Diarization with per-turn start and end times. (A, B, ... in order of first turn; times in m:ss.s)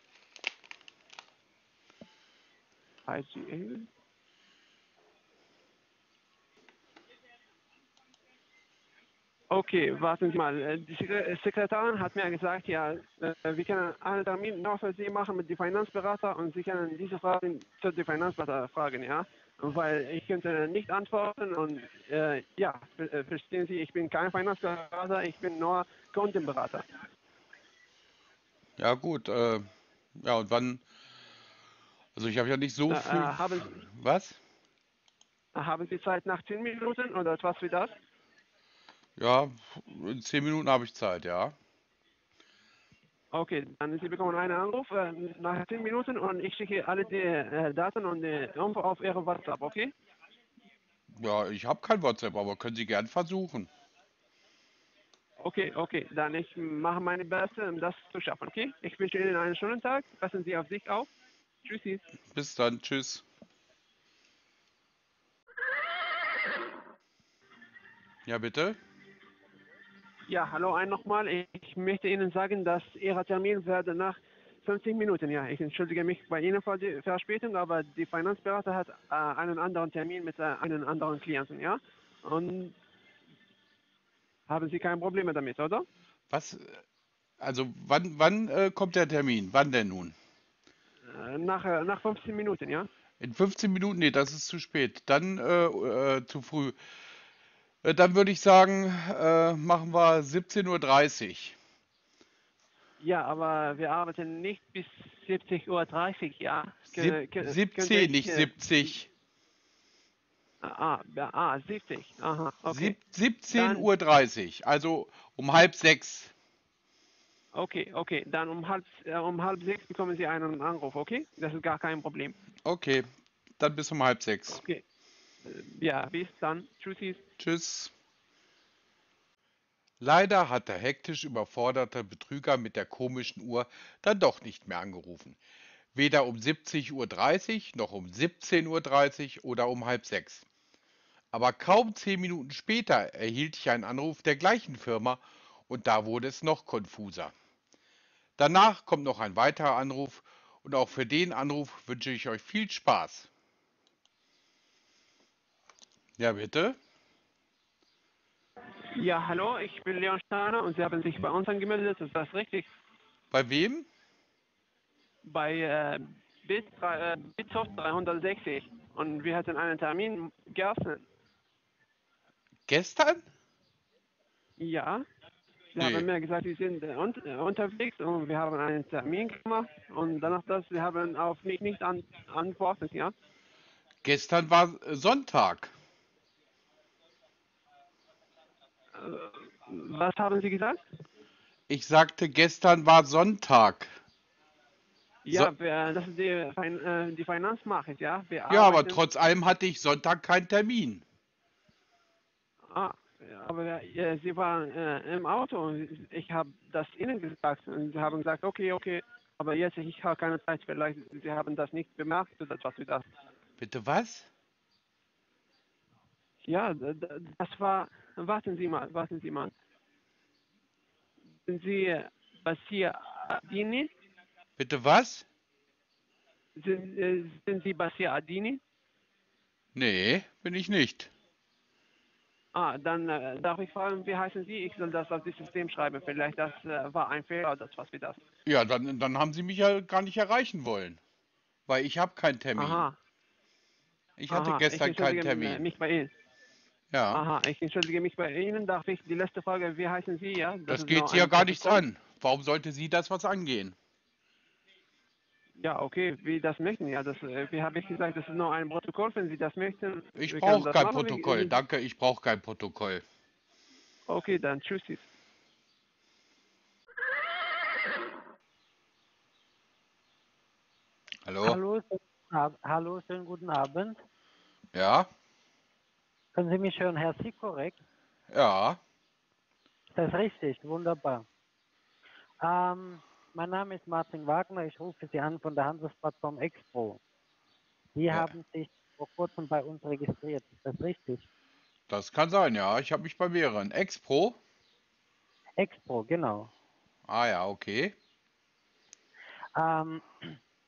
0:03.0-0:03.9 A
0:09.5-0:26.9 A
0:28.8-0:30.8 B
0:32.2-0:34.4 B
0:32.9-0:33.8 A
0:35.5-0:37.9 A
0:39.2-0:41.5 B
0:43.3-0:49.9 A
0:51.1-0:53.7 B
0:55.4-1:01.1 A
1:01.6-1:02.0 A
1:02.3-1:03.2 B
1:08.2-1:08.8 B
1:10.3-1:22.7 A
1:24.5-1:25.8 A
1:26.3-1:26.8 B
1:27.4-1:30.2 B
1:31.1-1:32.9 A
1:33.2-1:36.8 B
1:37.8-1:41.6 B
1:43.0-1:48.9 A
1:46.9-1:49.1 B
1:50.6-1:53.0 A
1:52.7-1:56.3 B
1:53.5-1:53.9 A
1:57.5-2:02.4 A
2:02.6-2:04.6 B
2:04.5-2:04.8 A
2:05.4-2:07.2 A
2:07.4-2:07.9 B
2:10.0-2:15.4 B
2:15.9-2:20.4 B
2:21.3-2:27.3 B
2:28.4-2:33.3 B
2:36.2-2:36.8 B
2:38.9-2:42.7 A
2:43.3-2:43.9 B
2:45.2-2:51.0 A
2:52.7-2:53.2 B
2:54.6-2:55.0 A
2:55.7-3:03.1 A
2:55.8-2:56.1 B
3:04.0-3:05.7 B
3:08.9-3:10.8 A
3:11.7-3:13.9 B
3:15.2-3:19.0 A
3:18.5-3:21.0 B
3:22.6-3:33.1 A
3:33.6-3:34.3 B
3:36.4-3:39.5 A
3:41.5-3:43.9 A
3:44.6-3:45.2 B
3:46.6-3:48.6 A
3:49.7-3:51.1 B
3:52.5-3:58.2 A
3:58.4-4:01.0 B
4:01.7-4:02.9 B
4:02.6-4:03.0 A
4:04.2-4:05.6 B
4:04.3-4:06.1 A
4:06.9-4:07.2 B
4:07.1-4:11.8 A
4:10.7-4:13.8 B
4:15.6-4:21.6 A
4:20.2-4:23.0 B
4:24.1-4:25.1 A
4:31.2-4:31.6 B
4:31.4-4:34.0 C
4:34.7-4:35.1 B
4:36.3-4:37.8 C
4:38.3-4:38.8 B
4:39.9-4:41.2 C
4:42.4-4:47.0 C
4:47.9-4:51.2 C
4:48.1-4:48.4 B
4:51.9-4:54.4 B
4:55.6-4:56.5 C
4:57.1-4:57.9 B
4:59.5-5:00.4 C